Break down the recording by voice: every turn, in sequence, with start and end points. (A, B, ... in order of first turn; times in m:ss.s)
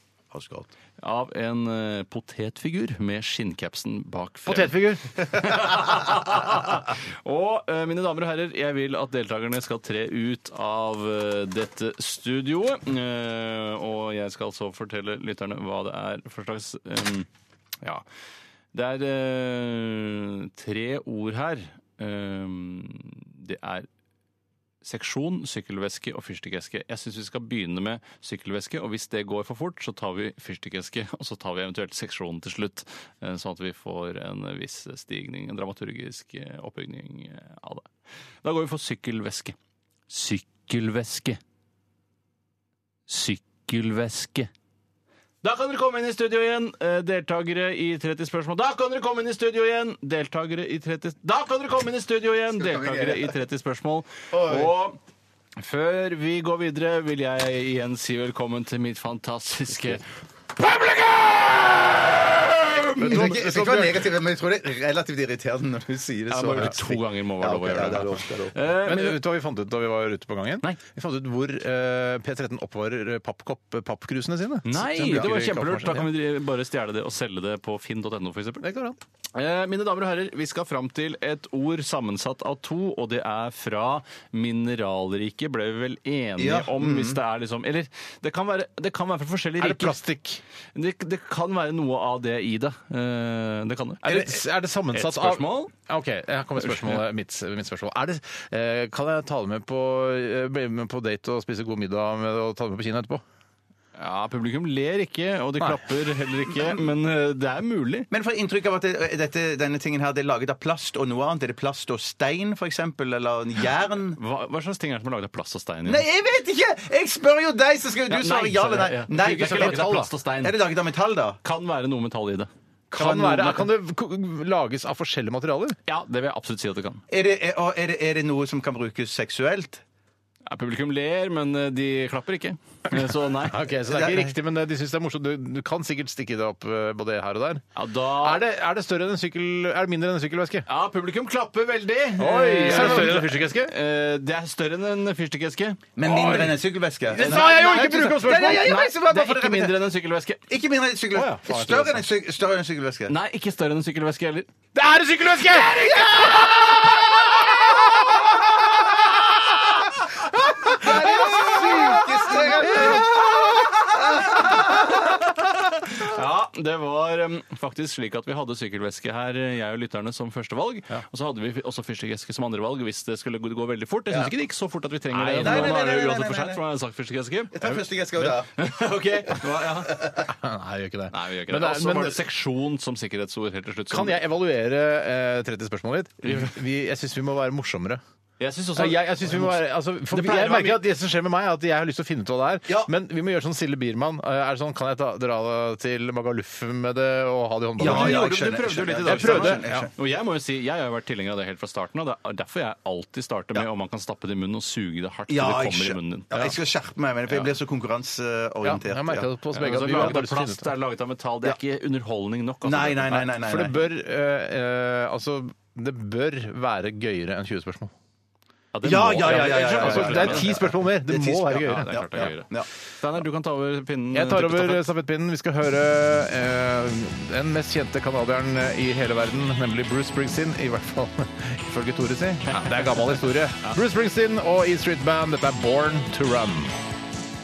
0:00.3-0:00.7 A
0:01.0-0:17.3 B
0:04.4-0:05.5 C
0:18.7-0:23.9 B
0:24.8-0:37.9 B
0:38.4-0:39.6 B
0:40.1-0:41.4 B
0:43.1-0:44.5 B
0:45.4-0:55.0 B
0:52.6-0:53.3 A
0:54.3-0:54.7 A
0:55.6-1:00.0 B
1:00.6-1:01.8 B
1:02.9-1:04.0 C
1:03.0-1:08.6 A
1:06.3-1:09.2 B
1:08.8-1:16.1 C
1:14.6-1:18.7 B
1:18.6-1:19.0 C
1:19.3-1:30.0 B
1:26.4-1:27.2 A
1:29.6-1:30.4 C
1:30.7-1:34.2 B
1:34.0-1:43.2 C
1:34.9-1:35.7 B
1:36.6-1:37.0 B
1:44.0-1:48.1 B
1:45.6-1:45.8 C
1:48.1-1:54.2 A
1:54.2-1:56.0 B
1:55.8-2:01.4 A
1:58.1-2:00.6 B
1:59.1-2:00.1 C
2:01.4-2:03.6 B
2:02.9-2:05.8 C
2:03.0-2:03.5 A
2:05.9-2:07.0 B
2:07.1-2:09.8 A
2:10.4-2:13.6 B
2:13.4-2:20.7 C
2:13.9-2:14.3 A
2:17.7-2:18.4 B
2:20.7-2:25.9 B
2:22.2-2:23.7 C
2:22.7-2:23.2 A
2:26.0-2:29.8 A
2:26.0-2:26.5 C
2:27.1-2:28.7 C
2:28.4-2:30.4 B
2:30.5-2:33.1 A
2:31.1-2:32.0 C
2:33.1-2:34.5 B
2:34.7-2:38.2 C
2:35.6-2:36.5 A
2:40.3-2:44.4 C
2:40.6-2:45.0 A
2:42.7-2:43.0 B
2:45.8-3:00.2 B
2:55.1-2:55.8 C
2:55.4-2:56.6 A
2:57.5-2:58.6 A
2:59.9-3:00.2 A
3:00.2-3:02.2 C
3:01.1-3:04.2 B
3:03.9-3:08.0 C
3:08.4-3:10.8 B
3:08.7-3:18.3 C
3:17.8-3:19.9 A
3:17.8-3:26.5 B
3:19.0-3:19.9 C
3:25.3-3:29.3 A
3:28.6-3:30.7 C
3:29.5-3:33.2 B
3:32.6-3:33.8 A
3:33.2-3:37.9 C
3:38.7-3:40.5 B
3:38.8-3:42.7 A
3:38.9-3:42.3 C
3:41.6-3:44.9 B
3:44.1-3:56.8 C
3:52.5-3:52.9 B